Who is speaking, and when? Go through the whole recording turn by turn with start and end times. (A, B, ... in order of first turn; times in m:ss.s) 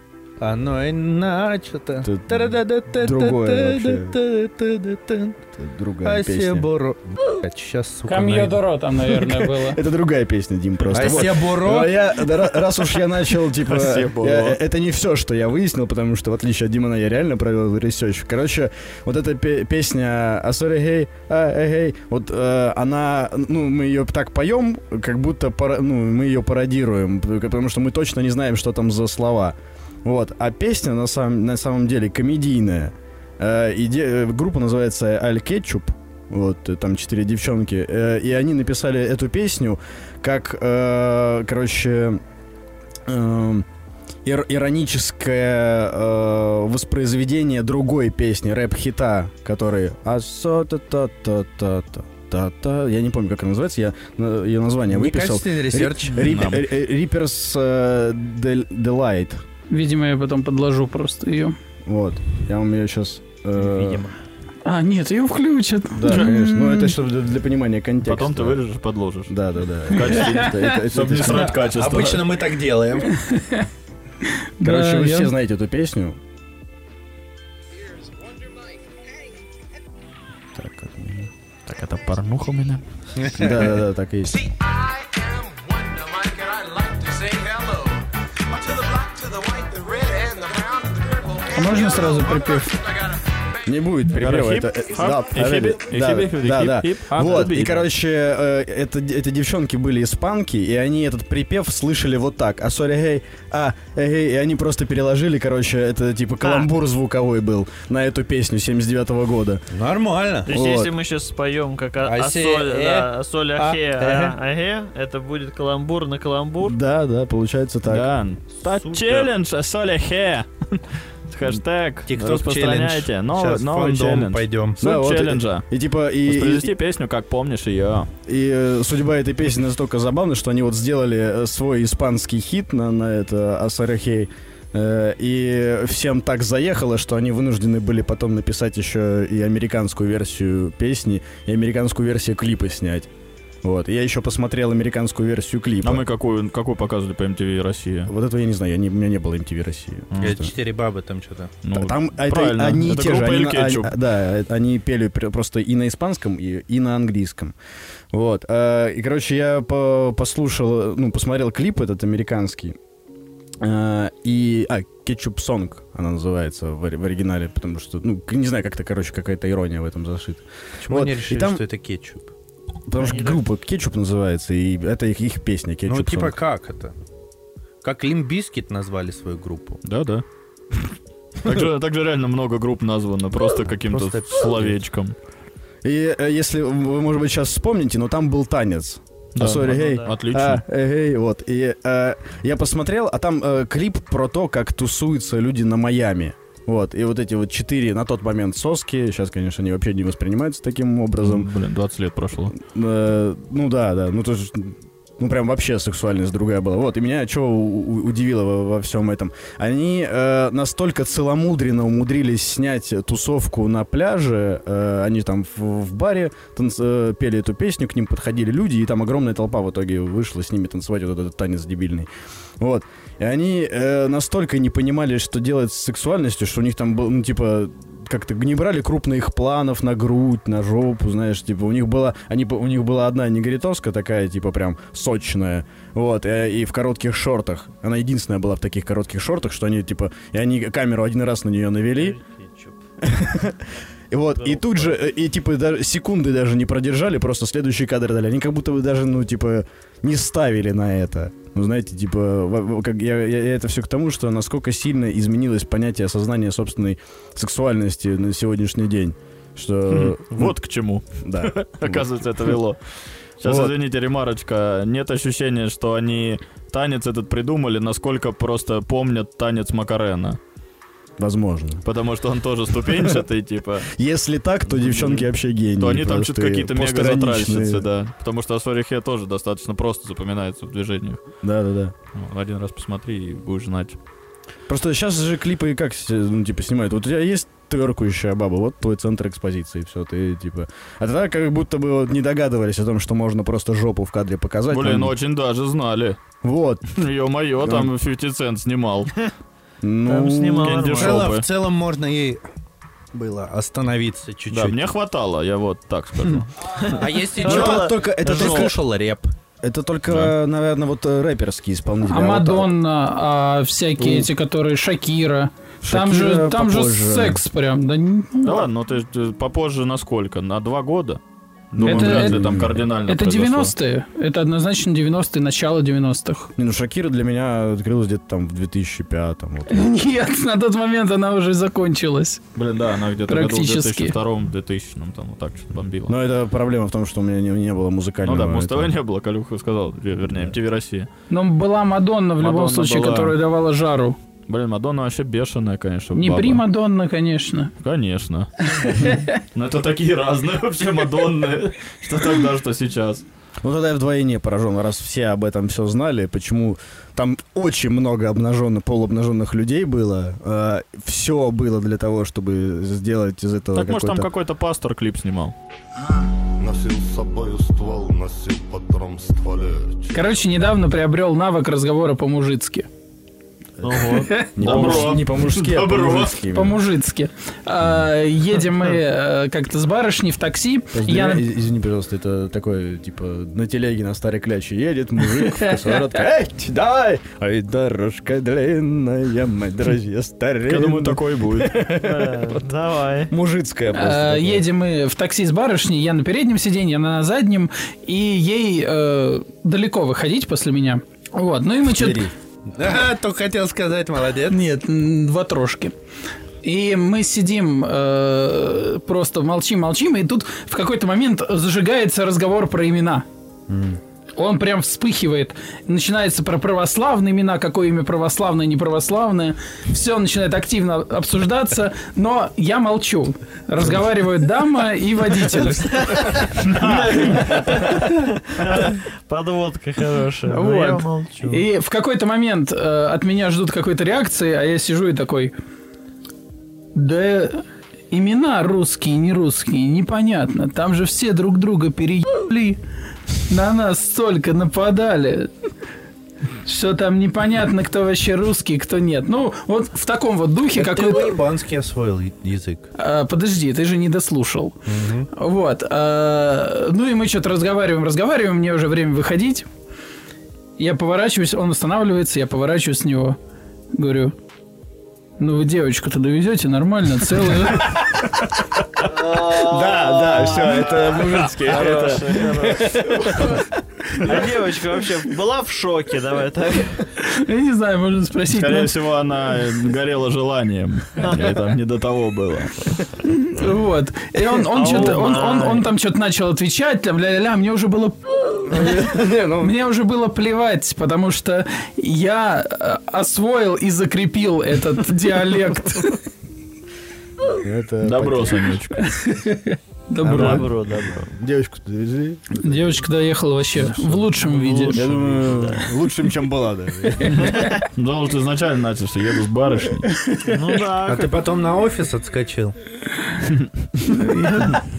0:00.4-0:05.4 A
0:02.0-0:04.2 B
0:05.5-0:06.7 B
0:06.0-0:08.6 A
0:08.0-0:09.8 C
0:09.6-0:42.2 B
0:10.9-0:11.2 D
0:10.9-0:12.0 A
0:13.6-0:14.6 D
0:43.0-0:43.6 B
0:44.2-0:59.4 B
0:54.9-0:56.4 A
0:56.2-0:56.6 D
0:59.7-1:01.6 C
1:01.8-1:04.1 B
1:03.6-1:04.2 E
1:04.6-1:06.9 C
1:05.9-1:08.6 B
1:08.0-1:09.3 D
1:09.3-1:11.6 B
1:09.9-1:12.3 D
1:10.9-1:13.2 A
1:13.1-1:13.6 C
1:14.3-1:15.3 C
1:14.6-1:16.2 B
1:20.5-1:21.3 B
1:21.7-1:22.8 D
1:23.2-1:23.5 A
1:23.3-1:24.5 B
1:25.8-1:27.9 F
1:28.7-1:31.2 F
1:31.5-1:32.8 C
1:33.6-1:49.6 B
1:34.1-1:37.8 D
1:46.4-1:46.7 E
1:49.7-1:50.5 A
1:50.5-1:56.8 E
1:50.5-1:50.9 B
1:52.0-1:54.4 A
1:56.6-1:58.0 B
1:57.9-2:05.6 D
1:58.6-1:59.3 E
2:02.1-2:04.8 A
2:04.8-2:06.7 B
2:06.2-2:08.1 D
2:08.2-2:23.1 B
2:23.6-2:26.0 B
2:25.8-2:28.1 D
2:28.1-2:30.5 B
2:30.2-2:31.5 A
2:31.6-2:33.9 D
2:31.7-2:37.5 B
2:38.1-2:42.8 B
2:43.6-2:51.6 B
2:50.8-2:52.3 A
2:52.9-2:56.4 B
2:52.9-2:53.4 E
2:55.9-2:56.9 A
2:57.8-2:59.8 A
2:59.8-3:00.2 D
3:01.4-3:05.1 D
3:03.9-3:04.8 A
3:05.8-3:21.5 B
3:09.3-3:10.6 D
3:09.5-3:10.2 E
3:21.2-3:22.6 D
3:22.6-3:42.1 B
3:42.6-4:02.2 B
4:01.9-4:02.8 E
4:03.0-4:20.6 B
4:04.4-4:05.0 E
4:19.9-4:22.8 D
4:21.2-4:22.5 B
4:23.4-4:30.4 D
4:23.4-4:23.7 B
4:31.2-4:31.8 B
4:31.8-4:33.9 D
4:33.9-4:37.9 B
4:34.8-4:41.2 D
4:41.4-4:41.9 B
4:42.1-4:44.0 D
4:44.7-4:55.1 B
4:54.7-4:56.2 D
4:56.4-4:56.9 B
4:56.9-4:59.1 D
4:57.6-4:57.9 B
4:59.8-5:01.0 B
5:00.1-5:01.3 E
5:00.6-5:01.5 D
5:01.0-5:02.4 A
5:03.1-5:04.8 A
5:04.5-5:06.5 D
5:06.8-5:08.0 E
5:06.9-5:09.3 A
5:07.4-5:08.7 B
5:07.4-5:08.7 D
5:09.6-5:12.7 B
5:12.1-5:18.6 C
5:14.0-5:14.3 B
5:15.8-5:17.4 B
5:18.4-5:21.2 D
5:21.7-5:23.7 D
5:21.8-5:22.8 B
5:21.8-5:22.5 C
5:23.1-5:26.5 C
5:26.6-5:29.9 B
5:29.7-5:32.4 C
5:32.5-5:36.1 D
5:33.3-5:34.2 C
5:36.1-5:39.0 B
5:38.2-5:41.1 D
5:40.2-5:40.6 B
5:41.3-5:44.2 C
5:42.4-5:43.4 D
5:44.5-5:46.6 D
5:46.1-5:47.7 C
5:47.8-5:53.2 D
5:53.6-6:04.3 B
6:03.7-6:05.5 D
6:06.6-6:10.6 G
6:10.1-6:12.9 C
6:13.8-6:16.8 B
6:13.8-6:15.0 E
6:14.1-6:14.8 C
6:14.6-6:16.4 D
6:16.5-6:21.4 C
6:20.9-6:32.6 B
6:30.7-6:31.8 D
6:32.0-6:33.3 E
6:33.3-6:34.6 B
6:33.9-6:42.3 C
6:41.9-6:42.3 B
6:42.7-6:44.6 A
6:44.5-6:45.9 C
6:46.6-6:53.2 C
6:53.7-6:54.0 B
6:54.4-7:06.1 C
7:05.8-7:11.6 E
7:06.6-7:07.1 D
7:10.5-7:15.5 C
7:16.9-7:22.8 C
7:23.5-7:25.5 C
7:26.6-7:31.4 C
7:30.7-7:32.9 A
7:33.0-7:34.8 C
7:34.8-7:35.3 A
7:35.3-7:39.6 C
7:40.8-7:43.4 C
7:43.9-7:44.3 C
7:45.4-7:48.0 C
7:49.0-7:53.5 E
7:49.3-7:53.6 B
7:51.6-7:52.4 D
7:54.2-7:57.0 E
7:57.2-7:58.9 C
7:58.5-8:03.0 D
8:01.2-8:01.6 E
8:03.3-8:16.2 C
8:04.7-8:05.9 E
8:08.7-8:09.7 B
8:17.5-8:18.8 B
8:18.0-8:19.1 D
8:19.1-8:20.7 C
8:20.2-8:21.3 E
8:20.2-8:23.0 B
8:22.6-8:25.0 C
8:24.1-8:25.9 E
8:24.9-8:27.5 B
8:27.9-8:30.1 D
8:30.4-8:31.4 E
8:31.0-8:32.8 A
8:34.0-8:34.8 C